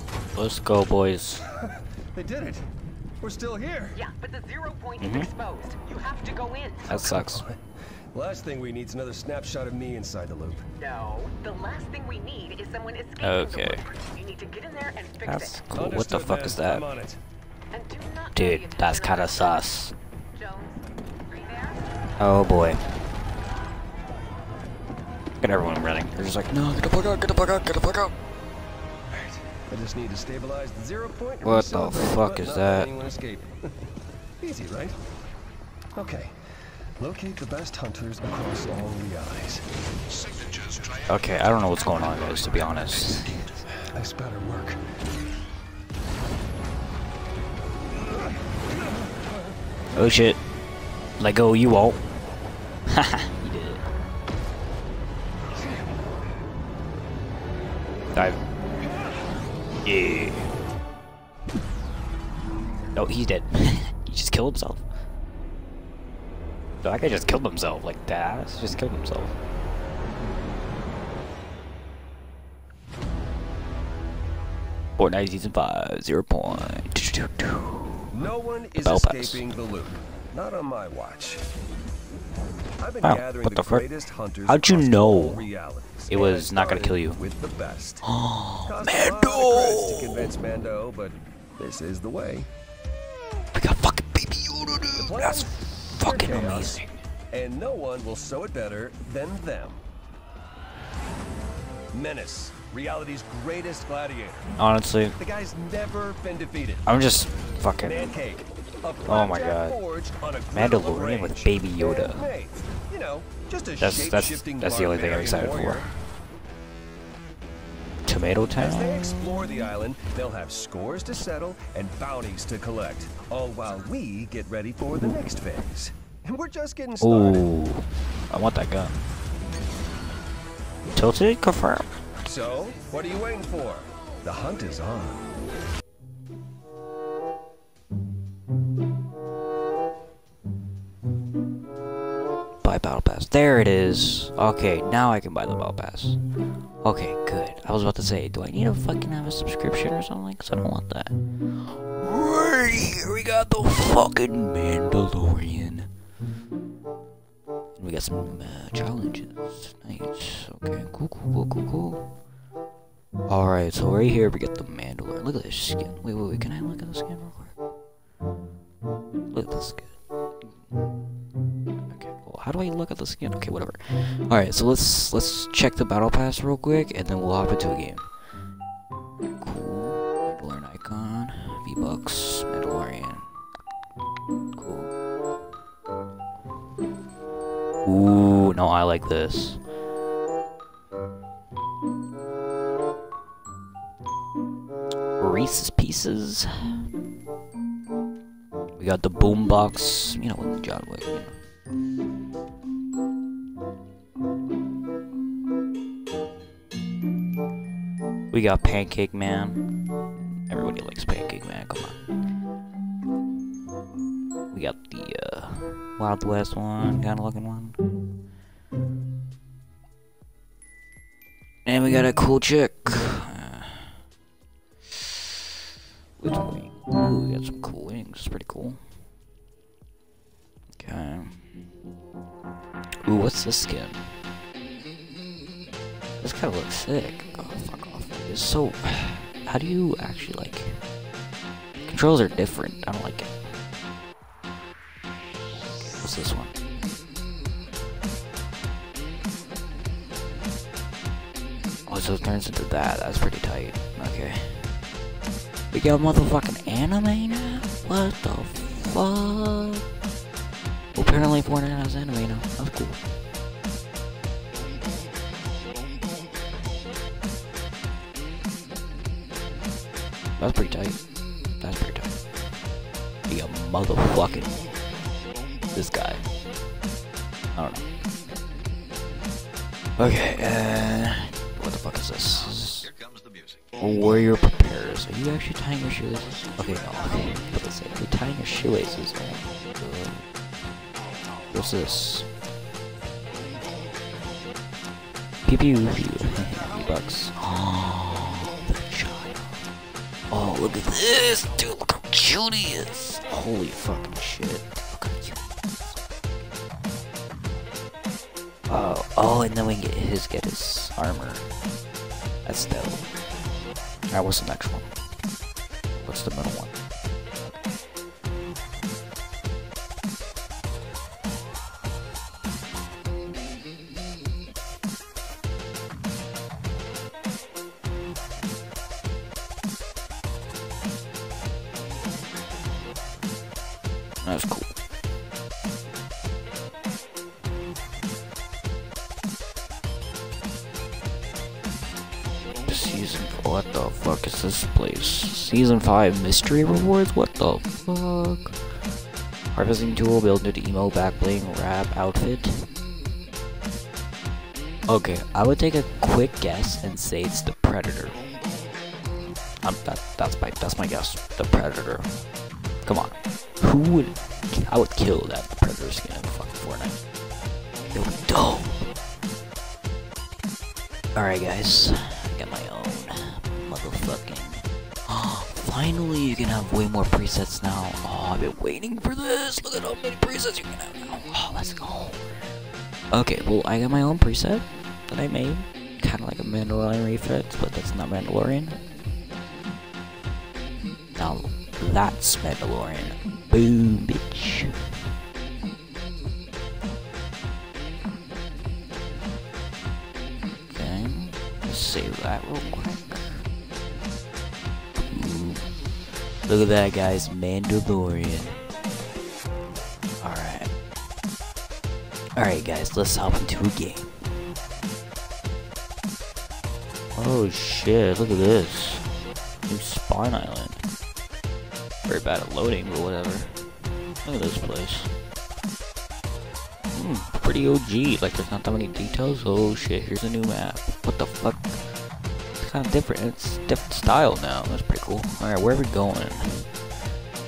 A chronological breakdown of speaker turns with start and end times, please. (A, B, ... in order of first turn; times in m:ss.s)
0:00.3-0:01.4 A
0:01.6-0:02.6 B
0:03.2-0:04.0 B
0:04.0-0:06.8 C
0:05.0-0:05.3 A
0:06.9-0:07.4 A
0:06.9-0:10.7 B
0:10.8-0:15.5 C
0:13.2-0:13.9 A
0:15.2-0:16.8 A
0:15.7-0:17.2 B
0:17.7-0:19.6 C
0:18.3-0:19.9 A
0:20.3-0:21.8 C
0:22.2-0:22.8 A
0:25.4-0:28.2 A
0:29.1-0:33.6 B
0:31.4-0:32.9 A
0:34.4-0:35.0 B
0:36.0-0:36.4 B
0:37.0-0:39.6 B
0:41.1-0:43.6 A
0:43.8-0:44.8 B
0:49.9-0:50.4 A
0:51.2-0:52.0 A
0:52.9-0:53.8 A
0:58.1-0:58.4 A
0:59.8-1:00.5 A
1:03.0-1:04.8 A
1:06.8-1:09.4 A
1:15.0-1:18.1 A
1:18.1-1:21.4 B
1:18.8-1:19.4 A
1:22.8-1:28.0 B
1:23.0-1:23.9 A
1:24.5-1:25.5 A
1:26.1-1:27.2 A
1:28.0-1:30.3 A
1:28.7-1:32.5 B
1:33.5-1:36.9 A
1:34.9-1:39.8 B
1:41.9-1:44.5 B
1:44.6-1:45.2 A
1:45.2-1:46.9 B
1:46.9-1:48.2 A
1:47.8-1:55.9 B
1:49.1-1:49.8 A
1:50.5-1:52.3 A
1:53.8-1:56.0 A
1:58.1-1:59.6 A
1:58.5-2:07.5 B
2:07.0-2:09.0 A
2:10.9-2:11.9 A
2:12.2-2:15.3 B
2:22.6-2:26.2 A
2:26.8-2:35.9 A
2:37.8-2:42.0 A
2:43.3-2:47.6 A
2:49.3-2:50.0 A
2:51.9-2:58.1 A
2:59.4-3:03.3 A
3:04.5-3:04.9 A
3:07.8-3:09.6 A
3:15.2-3:16.9 A
3:18.8-3:21.4 A
3:28.3-3:29.7 A
3:30.3-3:32.0 A
3:34.5-3:37.8 A
3:41.6-3:44.0 A
3:46.2-3:48.8 A
3:50.7-3:51.4 A
3:53.0-3:54.1 A
3:56.2-4:00.8 A
4:01.8-4:03.3 A
4:05.7-4:06.6 A
4:11.9-4:14.8 A
4:15.7-4:19.9 A
4:20.9-4:23.0 A
4:30.4-4:31.0 A
4:31.6-4:32.2 A
4:33.3-4:34.6 A
4:35.7-4:36.2 A
4:37.5-4:37.9 A
4:40.0-4:42.9 A
4:43.8-4:50.2 A
4:51.5-4:52.3 A
4:55.4-4:59.6 A
5:00.3-5:06.0 A
5:08.7-5:11.5 A
5:12.4-5:13.1 A
5:14.1-5:14.9 A
5:15.9-5:16.8 A
5:34.2-5:34.8 A
5:42.7-5:48.6 A
5:49.5-5:52.7 A
5:54.9-5:58.2 A
5:59.6-6:02.2 A
6:02.8-6:07.0 A
6:07.9-6:08.9 A
6:11.2-6:22.3 A
6:23.1-6:28.8 A
6:31.1-6:34.9 A
6:40.7-6:43.5 A
6:45.0-6:45.9 A
6:46.4-6:48.6 A
6:50.2-6:50.7 A
6:52.4-6:54.2 A
6:57.1-7:00.8 A
7:02.0-7:05.1 A
7:06.9-7:12.0 A
7:12.5-7:16.7 A